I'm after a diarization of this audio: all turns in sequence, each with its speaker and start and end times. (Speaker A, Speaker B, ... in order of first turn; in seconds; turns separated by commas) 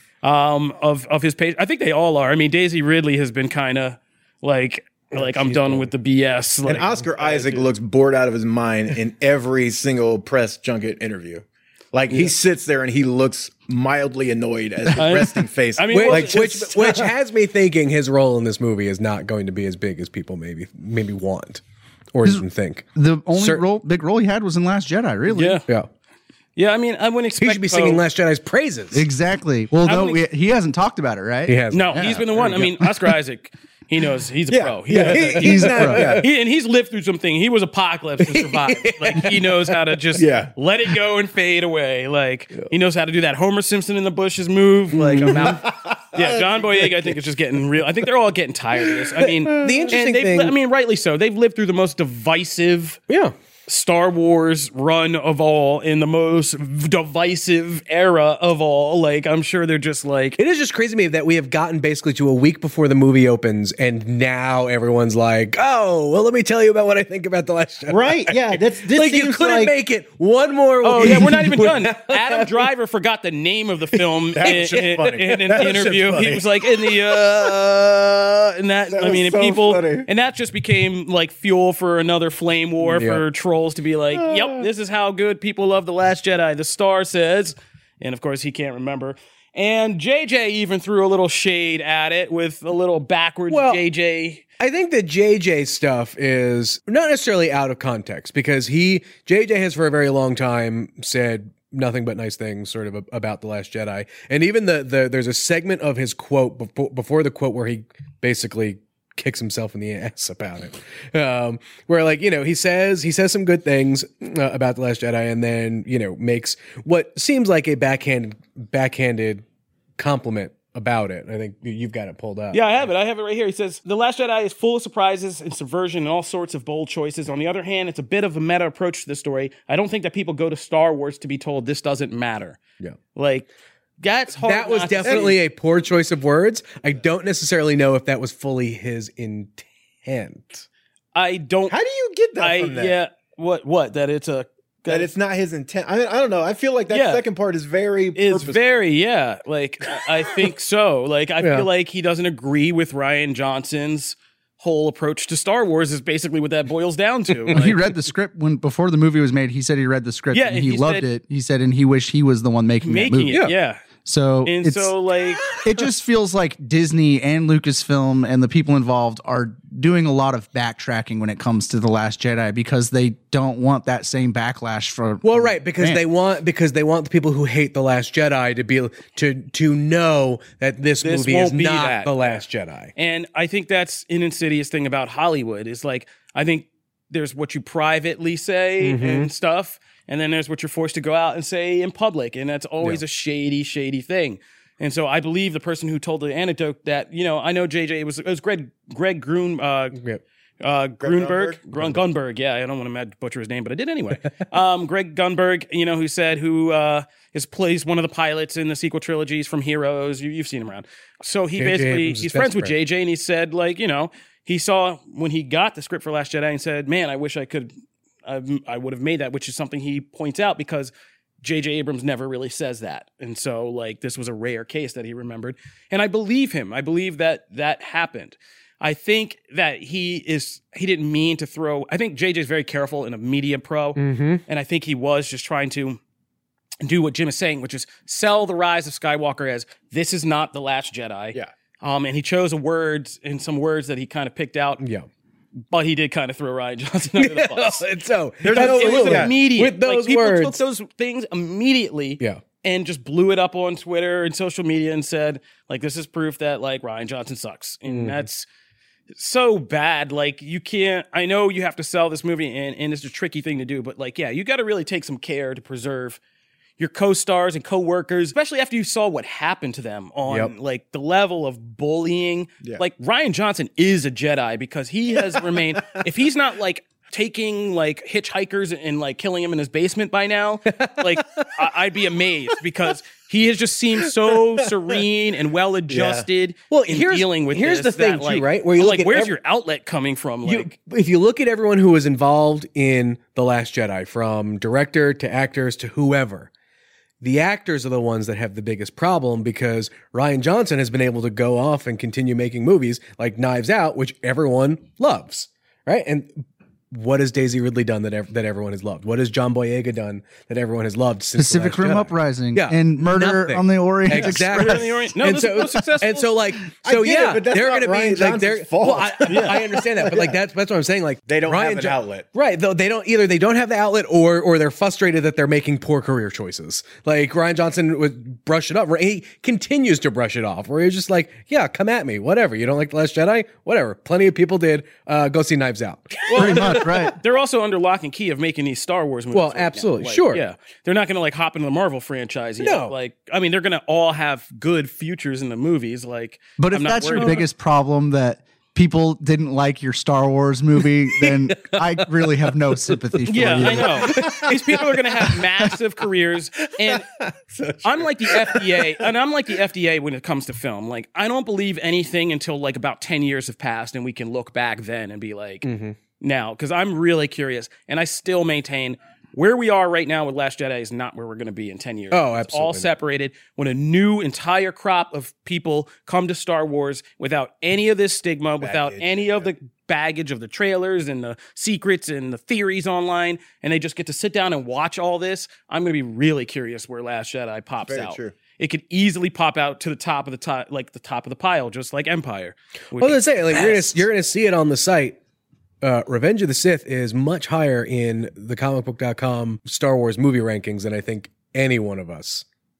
Speaker A: 0.2-7.7, Speaker B: 5.2-5.9, Speaker C: 6.7-16.4, Speaker A: 15.0-17.1, Speaker B: 15.9-21.6, Speaker B: 22.1-23.6, Speaker D: 22.9-25.6, Speaker A: 25.3-25.6, Speaker A: 26.6-28.0, Speaker B: 27.4-29.1, Speaker D: 28.9-32.2, Speaker A: 29.8-30.2, Speaker B: 31.5-33.1, Speaker A: 31.7-53.0, Speaker C: 34.5-36.2, Speaker B: 35.0-36.2, Speaker D: 35.3-36.2, Speaker B: 38.2-39.7, Speaker C: 40.1-40.5, Speaker B: 44.9-45.6, Speaker C: 45.2-46.8, Speaker B: 49.4-50.5, Speaker C: 49.6-49.9, Speaker B: 53.1-53.3, Speaker A: 53.7-60.4, Speaker B: 60.4-72.4, Speaker C: 67.9-69.7, Speaker A: 70.8-94.4, Speaker C: 71.0-71.3, Speaker C: 74.3-76.4, Speaker B: 75.5-76.4, Speaker C: 78.9-80.1, Speaker B: 82.8-83.2, Speaker C: 84.2-84.6, Speaker B: 93.5-93.8, Speaker B: 94.6-119.4, Speaker B: 120.0-122.8, Speaker A: 122.5-132.6, Speaker A: 133.1-135.4, Speaker B: 134.4-140.7, Speaker C: 135.0-135.3, Speaker A: 141.1-141.8, Speaker C: 141.7-142.9, Speaker A: 142.4-145.1, Speaker C: 144.9-148.8, Speaker A: 146.9-147.2, Speaker A: 148.1-157.8, Speaker B: 151.4-151.7, Speaker B: 157.5-157.7, Speaker D: 157.5-163.4, Speaker A: 160.3-161.1, Speaker A: 162.8-163.8, Speaker D: 164.0-164.9, Speaker A: 164.4-165.4, Speaker D: 165.5-176.0, Speaker B: 175.2-182.9, Speaker A: 181.0-182.4, Speaker A: 182.9-200.0, Speaker B: 188.8-189.3, Speaker B: 199.9-200.2, Speaker A: 200.6-217.7, Speaker C: 201.0-201.6, Speaker B: 211.6-212.7, Speaker A: 218.2-220.9, Speaker A: 221.4-236.0, Speaker B: 234.0-234.4, Speaker A: 236.8-244.8, Speaker B: 244.8-245.1, Speaker A: 245.7-247.8, Speaker B: 247.2-250.6, Speaker C: 248.4-249.3, Speaker A: 248.5-258.4, Speaker B: 257.9-258.2, Speaker A: 259.1-266.2, Speaker A: 266.8-290.7, Speaker B: 280.7-281.5, Speaker C: 285.9-286.3, Speaker B: 286.7-289.3, Speaker B: 290.4-296.5, Speaker B: 297.2-337.1, Speaker D: 311.4-314.9, Speaker A: 314.1-316.3, Speaker C: 316.8-320.4, Speaker A: 319.2-319.6, Speaker C: 321.3-322.2, Speaker A: 336.3-347.4, Speaker D: 336.3-337.1, Speaker B: 339.3-340.4, Speaker B: 342.6-342.9, Speaker D: 346.6-354.2, Speaker B: 347.1-347.4, Speaker B: 351.1-354.8, Speaker A: 353.3-357.1, Speaker C: 354.1-354.5, Speaker C: 356.9-358.8, Speaker A: 357.8-365.7, Speaker B: 365.6-366.0, Speaker A: 366.2-394.1, Speaker B: 372.1-372.9, Speaker C: 378.6-379.5, Speaker C: 387.9-388.4, Speaker B: 393.0-395.2, Speaker B: 395.8-402.4